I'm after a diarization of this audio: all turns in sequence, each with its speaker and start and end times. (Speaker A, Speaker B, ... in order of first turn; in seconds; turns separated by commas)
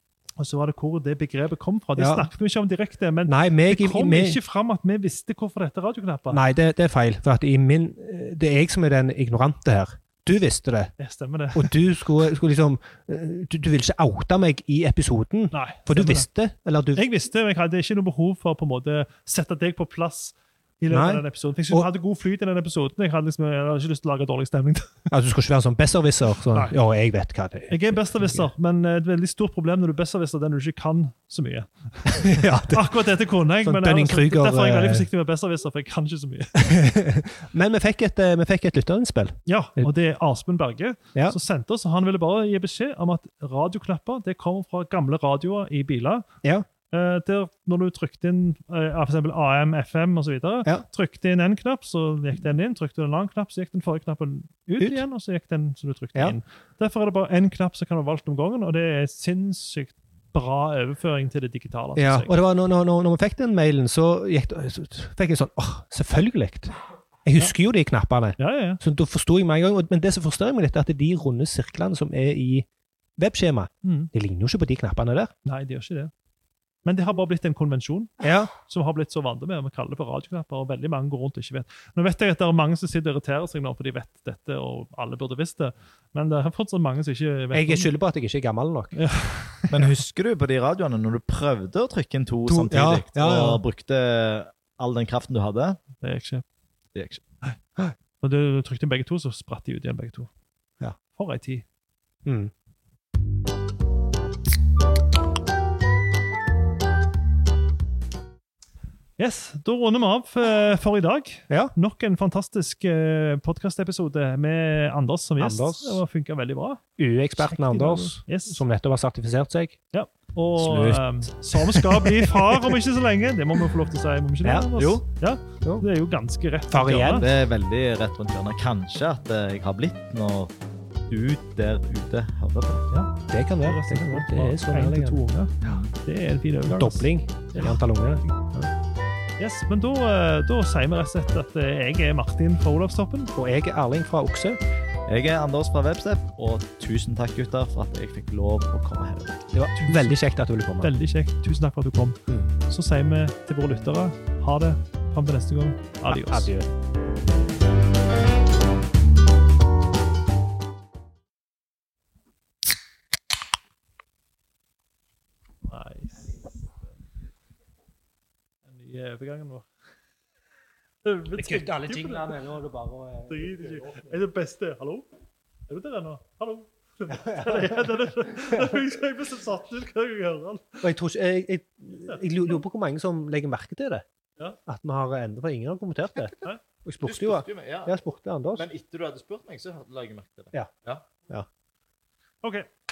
Speaker A: 0.4-6.4, Speaker B: 2.0-2.3, Speaker B: 3.2-4.4, Speaker B: 6.3-10.9, Speaker A: 11.0-11.7, Speaker B: 11.5-17.0, Speaker A: 15.5-16.2, Speaker A: 16.9-24.9, Speaker B: 20.9-21.9, Speaker B: 25.1-28.4, Speaker A: 27.7-36.6, Speaker B: 32.1-33.0, Speaker B: 33.6-35.1, Speaker B: 36.5-39.9, Speaker A: 39.5-46.3, Speaker A: 46.9-62.3, Speaker B: 62.0-66.7, Speaker B: 67.2-75.3, Speaker A: 68.4-68.8, Speaker A: 73.8-74.1, Speaker A: 75.4-76.1, Speaker A: 76.8-87.9, Speaker B: 78.2-78.5, Speaker B: 87.5-89.0, Speaker A: 88.9-89.9, Speaker C: 89.7-95.8, Speaker B: 92.5-93.6, Speaker A: 96.0-96.4, Speaker C: 96.9-97.2, Speaker A: 98.2-100.3, Speaker A: 101.1-101.6, Speaker B: 102.2-102.5, Speaker A: 109.2-116.8, Speaker B: 115.4-116.0, Speaker B: 117.0-119.8, Speaker A: 117.3-118.6, Speaker A: 119.9-127.2, Speaker B: 120.6-122.8, Speaker B: 124.4-124.7, Speaker C: 124.8-125.0, Speaker B: 126.7-127.3, Speaker C: 127.2-130.5, Speaker C: 131.1-132.8, Speaker A: 132.9-137.8, Speaker B: 133.3-135.7, Speaker B: 136.7-138.7, Speaker A: 139.4-143.3, Speaker B: 143.3-144.6, Speaker C: 145.1-149.4, Speaker B: 149.5-150.9, Speaker A: 149.8-150.1, Speaker A: 150.8-156.5, Speaker B: 156.1-156.7, Speaker A: 165.6-166.5, Speaker A: 168.7-169.7, Speaker A: 171.0-172.3, Speaker B: 171.4-174.0, Speaker A: 173.3-175.1, Speaker A: 175.7-180.9, Speaker B: 177.1-177.9, Speaker B: 178.5-178.8, Speaker B: 180.8-184.0, Speaker B: 184.7-188.7, Speaker C: 187.0-187.9, Speaker C: 188.5-191.0, Speaker A: 192.4-192.7